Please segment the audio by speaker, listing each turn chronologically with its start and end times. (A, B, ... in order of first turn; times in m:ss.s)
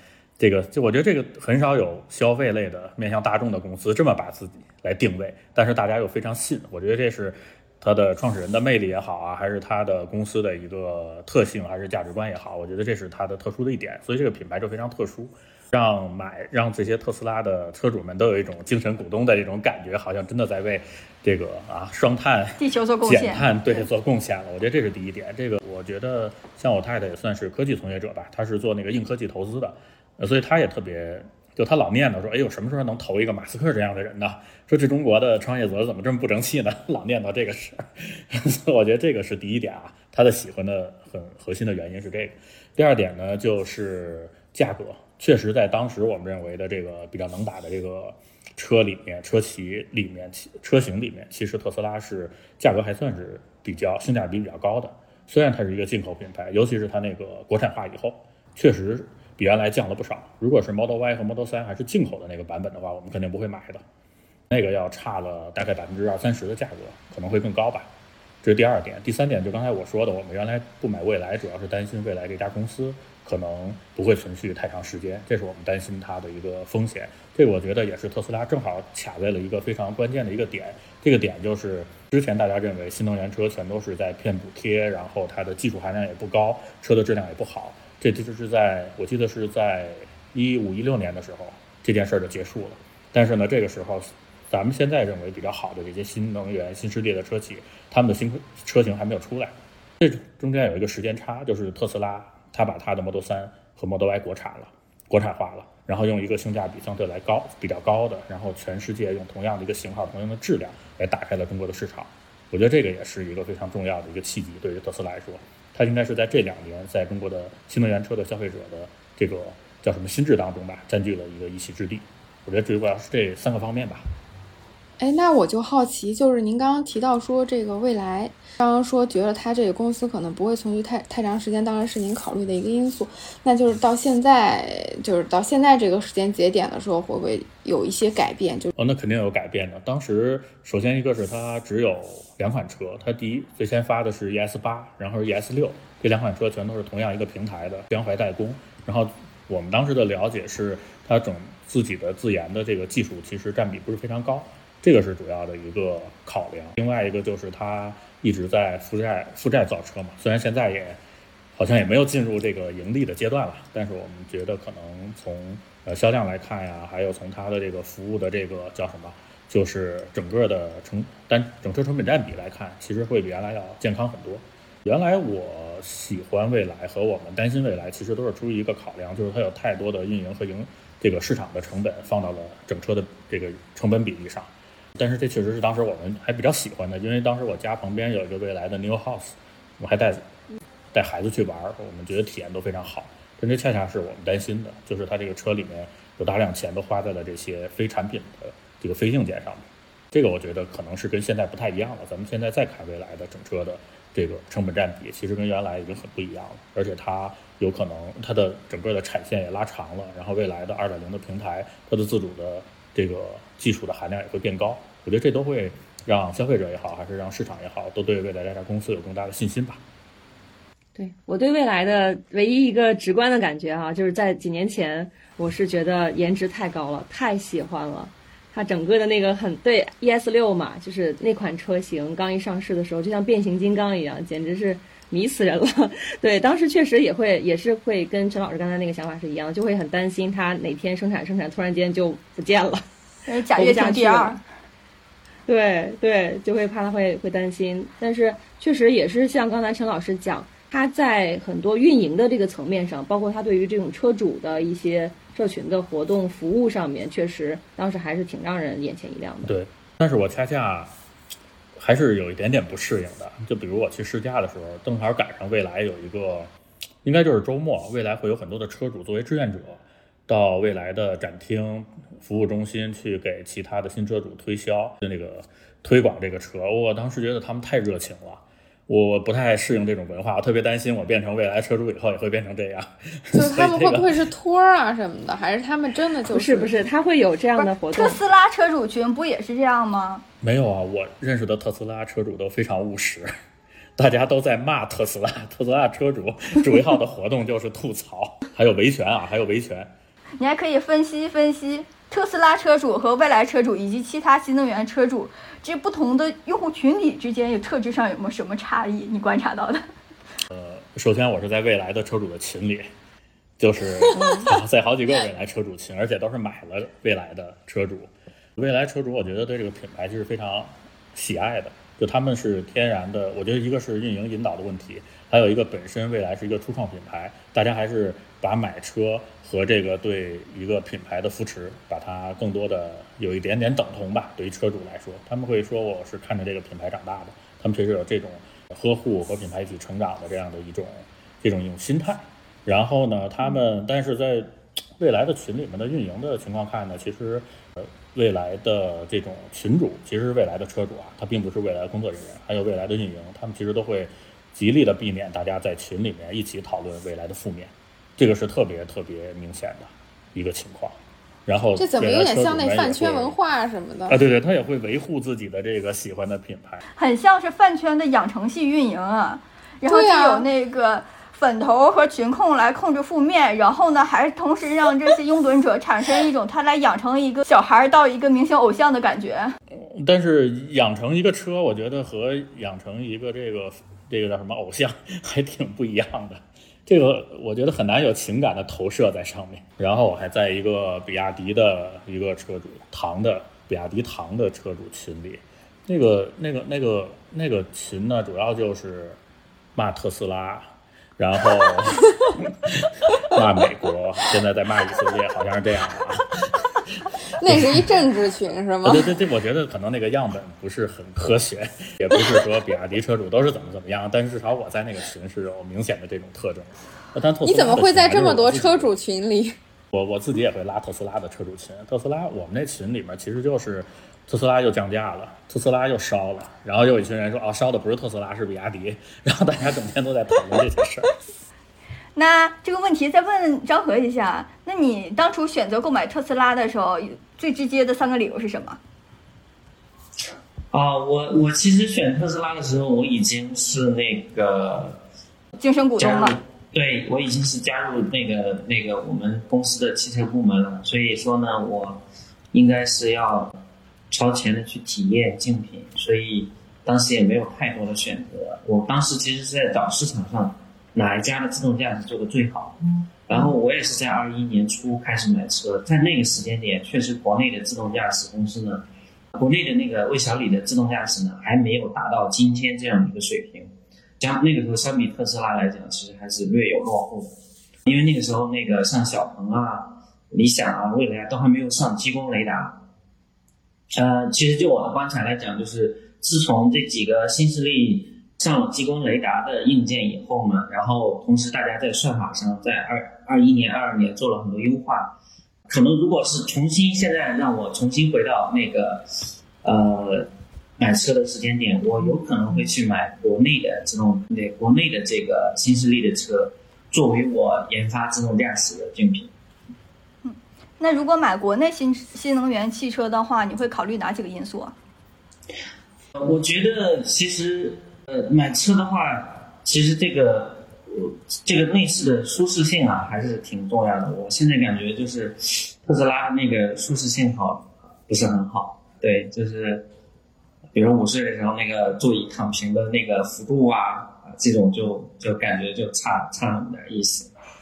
0:00.4-1:03.8 A
0:22.6-0:23.5 B
1:04.5-1:07.9 A
1:08.4-2:04.0 A
2:05.0-2:18.7 C
2:18.8-2:41.0 A
2:41.6-3:10.2 A
3:10.9-3:39.8 A
3:40.9-4:02.8 D
4:03.2-4:04.4 B
4:03.5-4:04.4 D
4:05.4-4:19.5 D
4:19.4-4:20.9 A
4:21.8-4:26.5 A
4:27.0-4:44.2 A
4:43.3-4:46.8 C
4:46.3-4:48.2 D
4:47.6-4:50.2 B
4:50.4-4:53.3 A
4:54.0-4:59.9 A
5:00.4-5:09.8 B
5:10.5-5:12.9 A
5:13.6-6:03.4 A
5:14.2-5:14.5 D
6:01.8-6:04.2 C
6:04.1-6:06.8 A
6:07.0-6:19.6 B
6:09.9-6:10.5 C
6:19.8-6:39.2 A
6:39.7-6:47.9 A
6:47.4-6:49.1 C
6:48.8-6:58.9 A
6:57.4-6:59.5 C
6:59.9-7:11.1 A
7:12.1-7:18.8 B
7:20.7-7:25.0 E
7:25.6-7:26.4 B
7:26.0-7:33.5 E
7:34.1-7:57.3 E
7:57.8-8:02.8 E
8:03.9-8:15.2 E
8:15.7-8:29.3 E
8:30.2-8:34.7 B
8:36.1-8:49.9 E
8:50.7-8:57.3 E